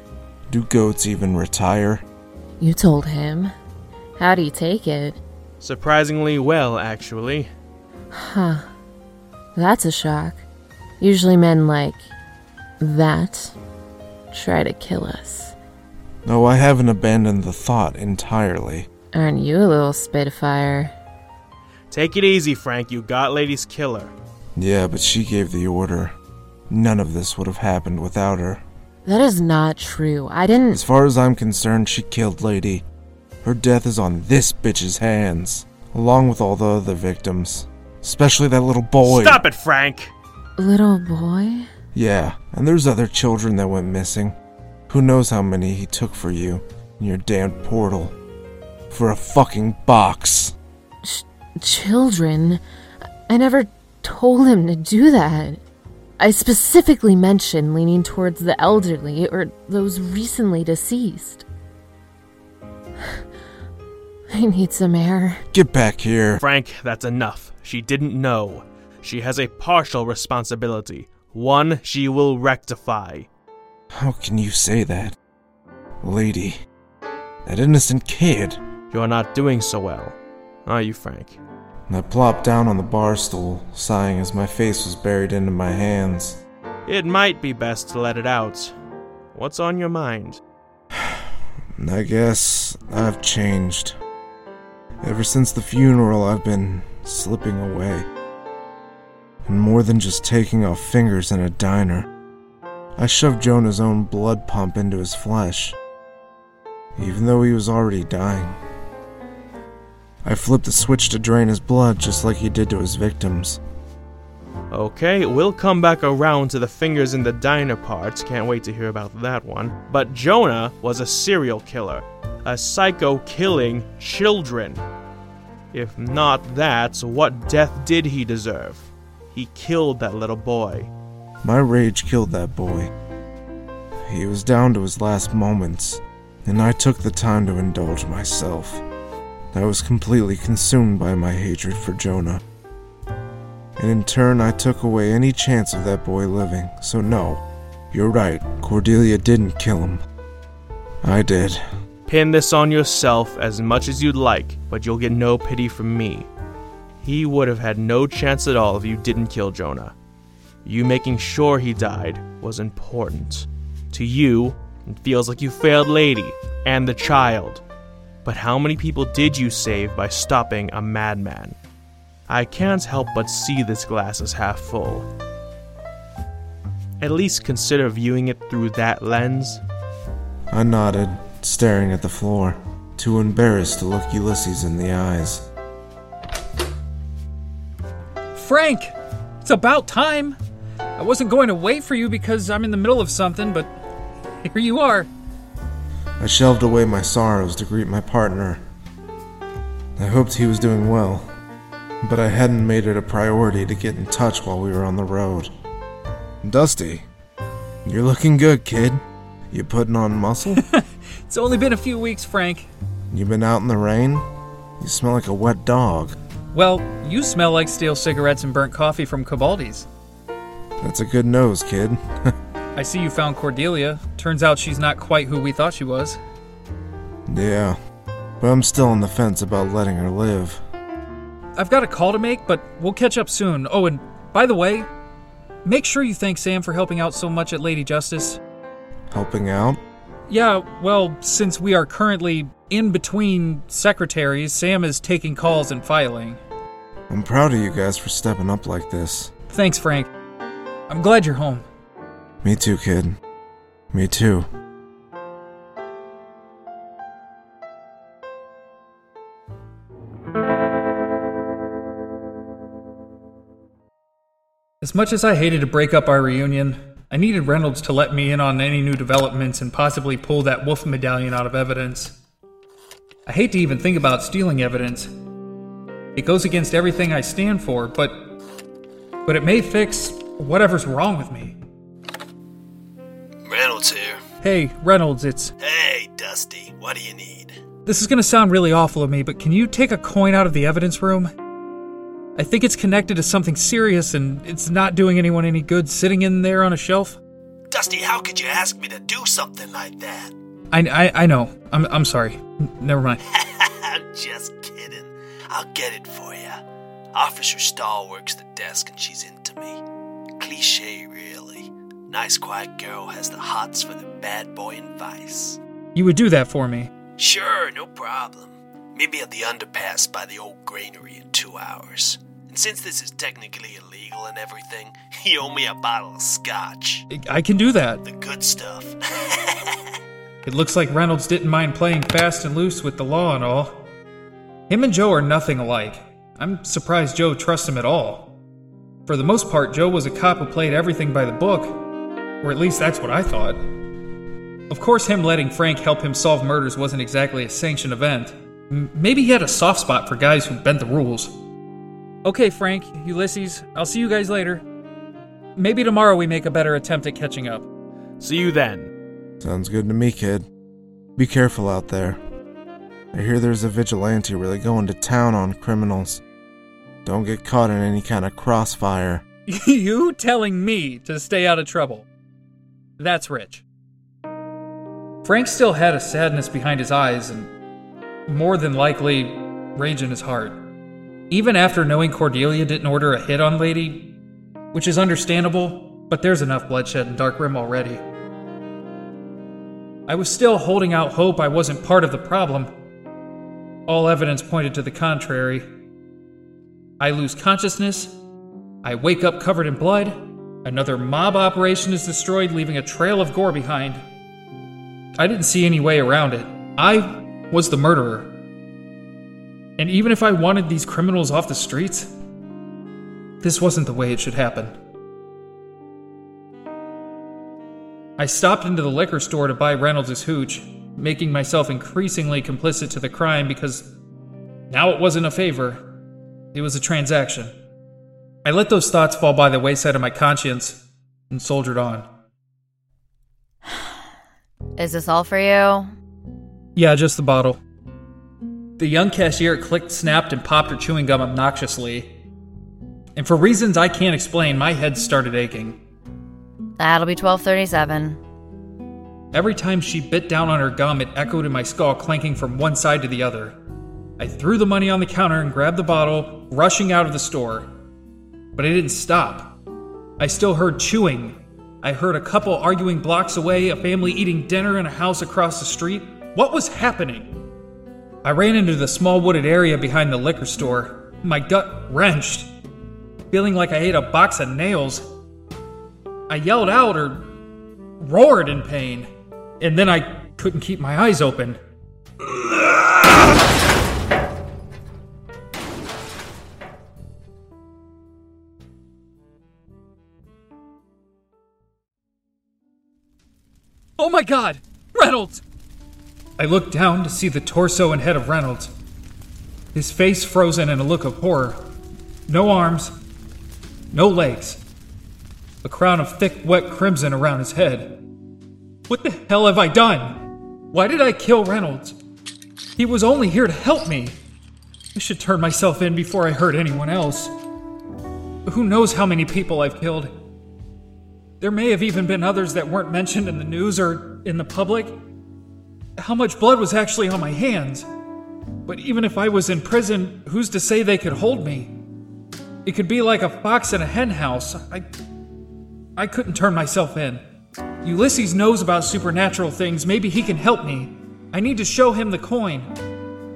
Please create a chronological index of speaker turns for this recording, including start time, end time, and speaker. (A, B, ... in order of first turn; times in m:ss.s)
0:00.5-0:02.0 A
0:02.6-0:03.5 B
0:04.2-0:05.2 B
0:05.6-0:07.5 C
0:08.1-0:08.7 B
0:09.6-0:10.4 B
0:11.0-0:12.1 B
0:12.8-0:13.6 B
0:14.3-0:15.6 B
0:16.2-0:18.9 A
0:19.1-0:20.9 B
0:21.9-0:24.1 C
0:24.6-0:26.2 A
0:26.7-0:28.6 A
0:29.0-0:30.8 B
0:30.7-0:32.8 A
0:33.4-0:39.4 A
0:39.0-0:40.1 C
0:40.6-0:41.7 B
0:41.9-0:44.4 A
0:44.9-0:48.2 A
0:48.9-0:50.6 A
0:51.0-0:52.6 B
0:53.3-0:55.6 B
0:56.2-1:01.4 B
1:04.3-1:05.5 B
1:05.5-1:06.4 A
1:06.4-1:13.3 C
1:13.9-1:15.2 A
1:16.0-1:16.6 A
1:17.4-1:18.6 A
1:18.9-1:21.4 C
1:21.9-1:26.4 A
1:26.9-1:28.7 C
1:29.3-1:30.4 C
1:30.9-1:34.0 A
1:35.0-1:38.1 A
1:39.5-1:42.1 A
1:43.0-1:45.8 A
1:47.0-1:48.6 A
1:50.2-1:53.6 A
1:54.7-2:04.8 C
2:05.7-2:10.9 C
2:11.4-2:12.9 A
2:14.0-2:18.8 A
2:19.5-2:22.4 A
2:23.8-2:30.0 A
2:31.0-2:31.6 A
2:32.1-2:36.3 C
2:37.0-2:40.0 C
2:40.6-2:47.6 C
2:48.2-2:51.6 C
2:52.3-2:55.1 C
2:57.0-2:59.6 C
3:00.5-3:05.5 A
3:08.4-3:10.4 D
3:11.0-3:13.7 D
3:14.4-3:15.1 D
3:16.2-3:18.6 A
3:20.0-3:21.3 A
3:22.0-3:25.5 A
3:26.4-3:27.1 A
3:27.8-3:30.6 A
3:30.6-3:32.7 D
3:33.1-3:34.3 A
3:34.8-3:36.2 A
3:36.5-3:39.9 D
3:40.8-3:42.0 A
3:42.8-3:46.2 D
3:47.3-3:47.8 A
3:48.4-3:50.6 A
3:51.6-3:54.9 D
3:55.6-3:58.4 D
3:59.1-3:59.8 A
4:00.3-4:06.4 D
4:07.1-4:09.3 A
4:09.5-4:10.1 D
4:10.9-4:11.7 D
4:12.4-4:13.2 A
4:13.9-4:14.5 A
4:24.8-4:32.2 D
4:33.3-4:35.1 D
4:36.2-4:38.3 D
4:39.3-4:41.6 D
4:43.4-4:44.2 E
4:44.4-4:45.5 D
4:45.6-4:47.6 E
4:47.9-4:51.3 D
4:52.4-4:57.2 D
4:57.7-5:00.3 E
5:00.7-5:03.2 D
5:03.3-5:06.6 E
5:07.1-5:09.8 E
5:10.4-5:15.6 E
5:16.0-5:16.9 D
5:17.2-5:27.1 E
5:27.1-5:28.0 D
5:28.0-5:29.8 E
5:30.5-5:33.8 D
5:34.7-5:38.4 D
5:39.1-5:41.8 D
5:42.4-5:43.6 D
5:44.7-5:51.3 D
5:52.2-5:54.6 D
5:55.6-5:57.7 D
5:58.2-5:58.9 C
5:59.4-6:00.5 A
6:01.2-6:02.2 A
6:03.1-6:06.2 A
6:07.0-6:09.2 A
6:09.5-6:12.1 D
6:13.0-6:13.6 D
6:15.2-6:17.5 D
6:18.3-6:20.7 D
6:21.3-6:24.2 D
6:24.7-6:28.0 D
6:30.1-6:32.7 D
6:33.9-6:35.7 D
6:37.0-6:38.2 D
6:38.8-6:44.0 D
6:45.2-6:48.3 D
6:49.8-6:52.1 D
6:53.4-6:54.7 D
6:58.2-7:03.9 D
7:04.7-7:05.9 D
7:06.5-7:07.5 D
7:08.4-7:12.1 D
7:13.7-7:13.9 F
7:14.8-7:15.9 F
7:16.8-7:17.6 D
7:18.8-7:22.1 D
7:23.2-7:25.8 D
7:26.8-7:28.2 F
7:29.3-7:33.6 D
7:34.2-7:37.7 D
7:38.6-7:39.6 D
7:40.2-7:47.3 D
7:48.2-7:52.5 D
7:53.3-7:55.1 D
7:56.3-7:57.3 D
7:58.0-7:59.1 D
7:59.6-8:01.6 D
8:14.0-8:15.4 D
8:16.4-8:18.7 D
8:19.7-8:21.7 D
8:22.3-8:23.0 D
8:23.9-8:24.6 D
8:25.6-8:28.0 D
8:28.9-8:30.2 D
8:30.7-8:32.0 D
8:32.8-8:34.2 D
8:35.0-8:37.3 D
8:38.5-8:40.1 D
8:41.4-8:45.0 D
8:46.0-8:47.9 D
8:48.7-8:51.7 D
8:52.6-8:54.9 D
8:56.0-8:57.2 D
8:57.8-9:02.7 D